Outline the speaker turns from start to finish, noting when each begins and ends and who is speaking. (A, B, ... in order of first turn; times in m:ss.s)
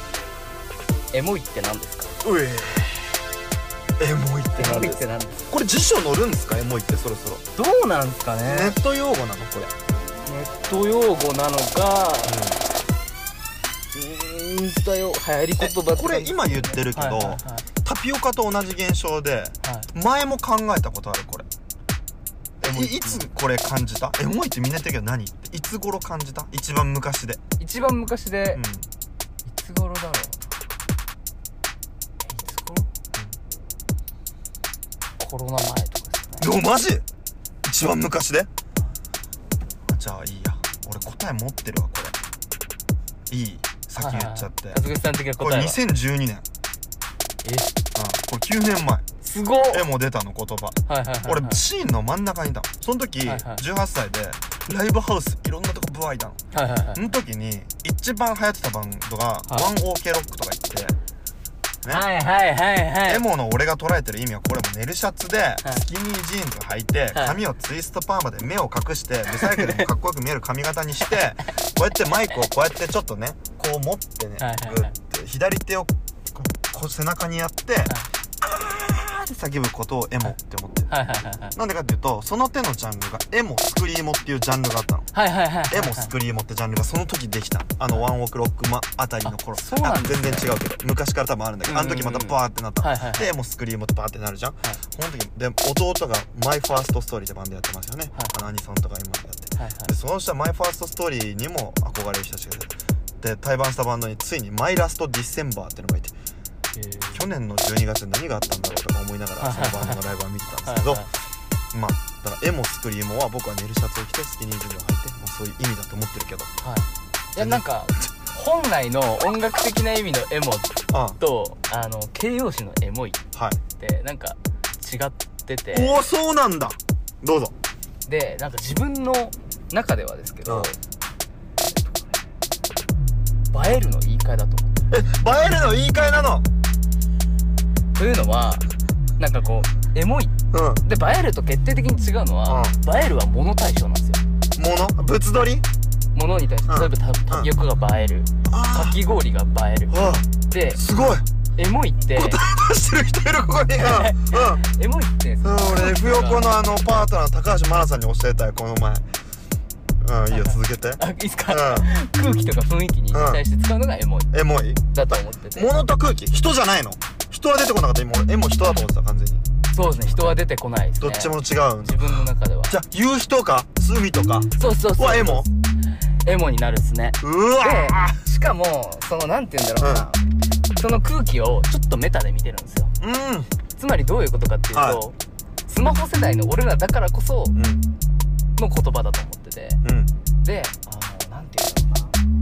0:01.1-0:02.2 A
0:02.2-0:03.1 B
0:04.0-0:07.4 B
0:04.6-0:05.5 A
0:07.5-0:08.8 A
0:08.4-0:09.7 B
0:10.2-0:12.4 A
0:12.2-0:12.6 B
0:13.9-0:17.6 A
0:15.6-0:21.4 B
0:19.6-0:19.9 A
0:22.6-0:23.3 A
0:22.6-0:27.4 B
0:27.6-0:28.6 A
0:28.5-0:28.9 B
0:29.5-0:30.4 A
0:32.2-0:32.9 A
0:35.2-0:36.5 A
0:36.4-0:37.0 B
0:37.6-0:38.5 B
0:39.9-0:42.2 B
0:43.3-0:44.8 B
0:44.0-0:45.8 A
0:45.4-0:46.4 B
0:47.4-0:47.7 A
0:48.0-0:49.0 B
0:49.2-0:49.8 A
0:49.7-0:56.4 B
0:50.9-0:51.6 A
0:53.2-0:53.6 A
0:56.5-0:57.0 A
0:56.9-1:01.0 B
1:01.8-1:03.2 A
1:03.0-1:20.9 B
1:07.1-1:07.4 A
1:09.3-1:09.9 A
1:14.4-1:14.9 A
1:20.9-1:21.5 A
1:21.5-1:25.1 B
1:25.1-1:26.1 A
1:25.7-1:46.1 B
1:29.2-1:30.5 A
1:31.7-1:33.3 A
1:39.6-1:39.9 A
1:46.7-1:47.3 A
1:47.1-1:51.1 B
1:49.4-1:50.0 A
1:50.6-1:51.1 A
1:51.7-1:56.5 B
1:56.6-2:03.2 A
1:57.4-1:57.6 B
2:00.9-2:01.2 B
2:03.3-2:03.6 B
2:03.7-2:06.0 A
2:05.7-2:07.5 B
2:08.0-2:10.8 A
2:10.4-2:10.7 B
2:11.7-2:12.2 A
2:13.5-2:14.8 A
2:14.9-2:16.4 B
2:17.9-2:18.6 A
2:19.2-2:24.2 A
2:20.5-2:20.8 B
2:22.4-2:22.8 B
2:24.6-2:25.6 B
2:26.1-2:30.8 A
2:26.7-2:27.5 B
2:28.4-2:29.0 B
2:29.9-2:31.2 B
2:31.6-2:32.4 A
2:32.2-2:34.6 B
2:33.7-2:36.5 A
2:35.4-2:39.0 B
2:40.0-2:41.9 B
2:40.3-2:44.3 A
2:43.1-2:43.4 B
2:44.3-2:50.4 B
2:44.9-2:45.7 A
2:49.7-2:52.7 A
2:51.0-2:55.5 B
2:54.6-2:55.5 A
2:56.2-3:00.2 A
2:57.2-2:58.2 B
2:59.8-3:00.1 B
3:00.8-3:02.9 A
3:03.0-3:03.5 B
3:03.8-3:05.2 A
3:04.7-3:05.0 B
3:05.7-3:07.6 A
3:07.5-3:07.8 B
3:08.6-3:09.8 A
3:09.8-3:10.1 B
3:10.4-3:12.2 A